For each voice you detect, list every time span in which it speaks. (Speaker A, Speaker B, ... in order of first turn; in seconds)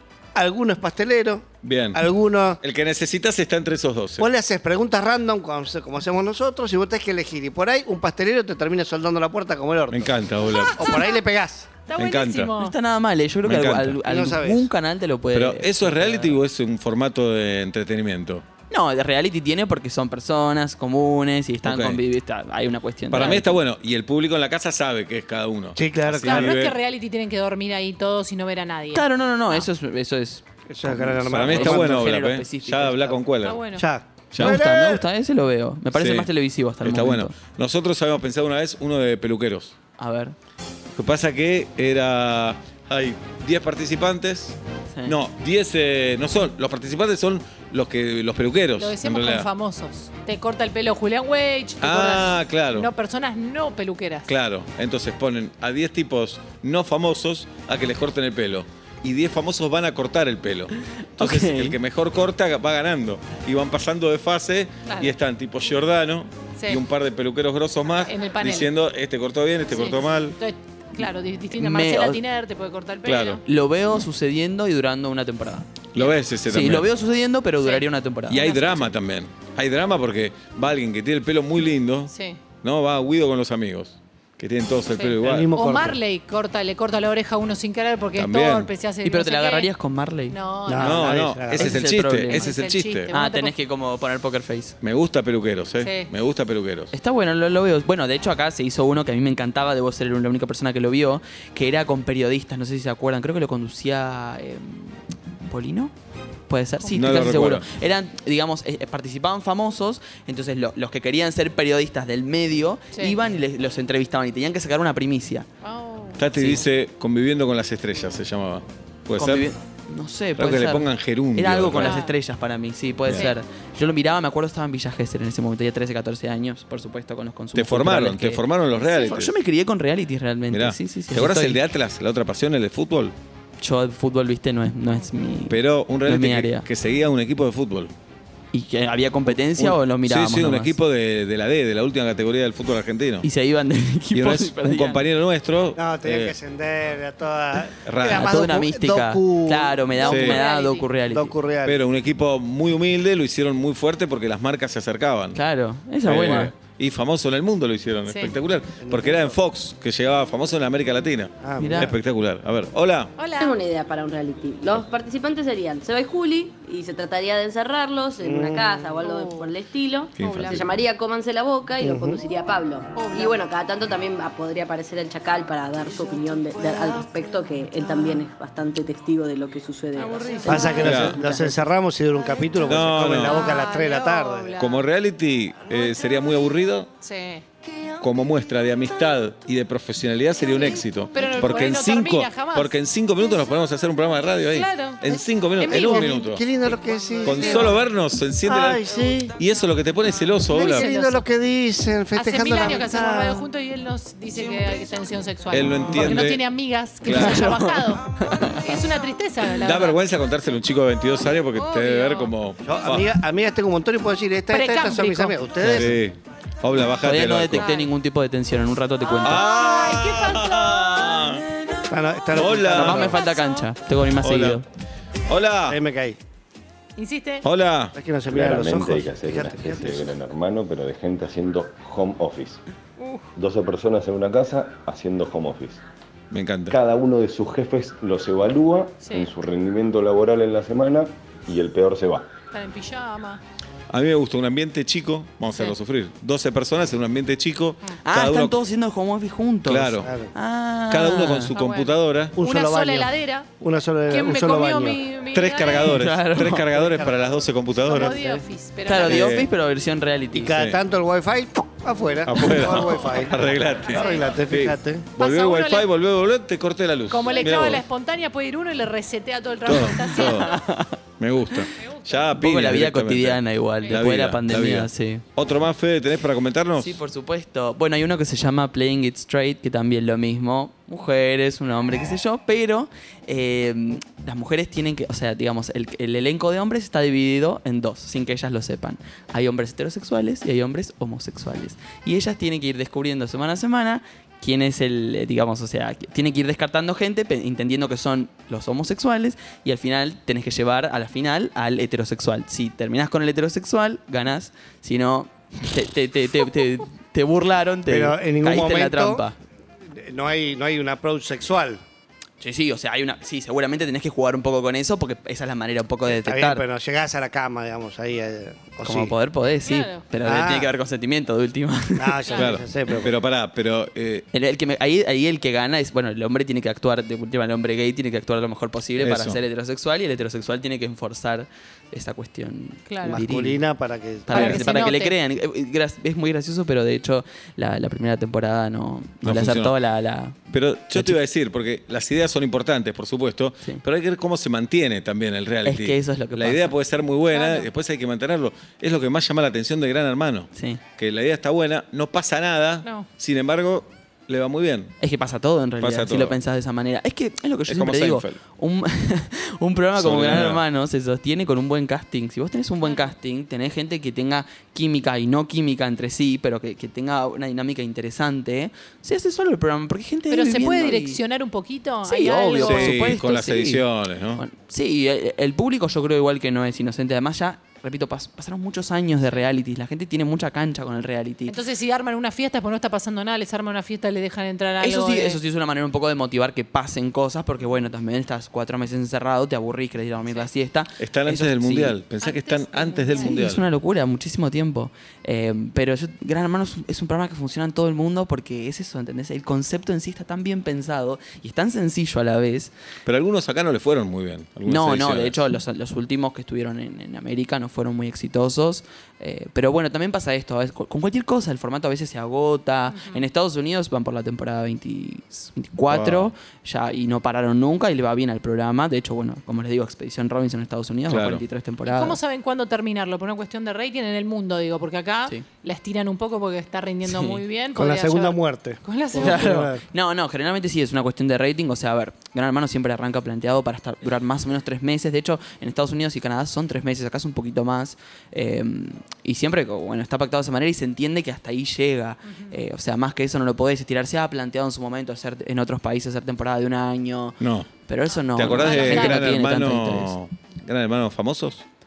Speaker A: 0.3-2.6, 4.2-10.1, 10.7-11.7, 14.1-14.7, 25.8-26.6, 30.7-32.0, 33.7-35.0, 85.2-86.0, 90.7-91.8, 145.8-150.1, 151.1-151.8, 158.8-159.3, 161.4-161.9, 168.2-168.8, 171.8-172.2, 180.5-184.6, 195.6-197.8, 198.4-199.3, 200.5-203.5, 212.6-216.0, 221.9-223.2, 225.7-226.2, 227.9-230.1, 250.0-250.3, 252.3-255.0, 256.7-257.1, 257.9-258.4, 260.3-263.4, 263.9-265.1, 307.9-309.2, 309.9-311.8, 316.1-319.1, 320.2-320.7, 322.0-323.1, 333.0-334.5, 427.7-429.8
Speaker B: 1.6-2.0, 2.6-4.3, 9.9-10.9, 11.9-12.5, 13.4-14.0, 15.3-18.4, 21.6-22.0, 23.1-26.8, 31.2-33.6, 34.3-34.6, 35.9-36.3, 36.8-39.8, 41.0-49.5, 51.8-52.9, 54.3-70.3, 73.0-73.4, 75.9-76.9, 78.3-85.5, 88.2-88.7, 90.8-93.1, 94.8-96.9, 106.9-107.7, 116.2-119.5, 120.4-122.0, 127.5-129.3, 130.5-133.1, 135.5-137.9, 139.6-143.3, 144.1-146.3, 147.8-148.4, 150.1-150.4, 151.6-155.4, 156.0-163.1, 170.2-170.7, 180.7-181.2, 182.6-183.5, 184.6-186.9, 188.0-196.4, 197.2-200.9, 205.5-206.4, 207.0-207.5, 209.6-213.1, 215.6-217.7, 219.2-221.4, 222.3-223.2, 224.2-224.6, 225.3-225.8, 227.4-227.9, 236.3-236.7, 243.9-248.6, 249.7-250.1, 250.9-252.3, 255.3-258.2, 259.0-259.5, 262.2-267.8, 269.6-270.6, 271.2-277.0, 322.3-324.2, 329.0-329.4, 334.3-334.6, 339.2-339.7, 340.5-354.9, 355.8-356.4, 357.7-358.4, 359.9-360.6, 372.5-374.4, 391.0-393.6, 403.1-405.4, 415.9-416.3, 421.1-421.4, 447.4-447.7, 448.4-451.6
Speaker C: 10.6-11.2, 11.8-12.8, 26.2-29.6, 33.4-33.8, 48.8-54.3, 64.8-65.1, 68.0-68.7, 69.7-73.4, 82.1-82.4, 84.9-89.7, 90.3-91.1, 92.3-93.5, 95.8-96.1, 106.8-107.2, 115.6-116.2, 121.8-122.2, 123.1-123.4, 128.8-129.2, 150.0-150.9, 158.1-158.3, 163.2-163.6, 169.0-169.5, 170.2-170.8, 172.9-173.4, 179.9-181.3, 183.0-184.8, 187.0-187.4, 191.1-192.7, 194.5-196.4, 197.2-197.8, 200.5-201.2, 202.1-210.0, 211.6-212.3, 214.5-215.4, 217.5-217.9, 219.0-221.4, 223.3-223.6, 227.0-227.4, 239.0-239.3, 242.5-243.4, 251.5-253.5, 254.1-256.0, 257.8-259.3, 262.7-263.0, 263.9-264.2, 265.2-265.9, 267.1-270.6, 319.6-320.1, 332.9-333.2, 334.3-335.1, 347.3-347.7, 362.8-363.1, 370.3-372.9, 381.5-385.4, 392.2-393.4, 412.9-413.2, 421.9-429.5, 442.2-442.5, 448.4-449.3
Speaker D: 12.6-16.4, 18.7-23.6, 28.9-33.1, 34.4-37.3, 40.0-40.3, 61.2-61.8, 71.5-72.2, 73.4-78.7, 89.0-90.4, 91.5-92.5, 93.1-94.8, 96.9-105.0, 105.5-105.9, 106.5-115.5, 116.3-116.6, 119.2-128.4, 129.0-131.6, 133.6-136.7, 138.5-140.8, 143.2-145.0, 148.0-151.3, 155.3-156.5, 161.6-161.9, 207.1-208.8, 215.6-215.9, 217.0-219.4, 222.7-224.6, 248.0-251.5, 255.8-256.6, 258.8-260.5, 270.3-271.0, 272.4-275.2, 276.8-309.3, 312.4-316.6, 318.8-322.3, 324.3-333.6, 334.2-340.4, 340.9-341.2, 345.6-346.7, 350.5-350.8, 355.0-371.2, 372.0-373.8, 374.4-381.6, 384.8-392.0, 393.2-402.7, 404.7-422.2, 427.0-427.4, 429.1-447.4, 447.9-450.1
Speaker E: 163.4-181.6
Speaker F: 228.2-232.6, 233.3-235.8, 236.7-242.3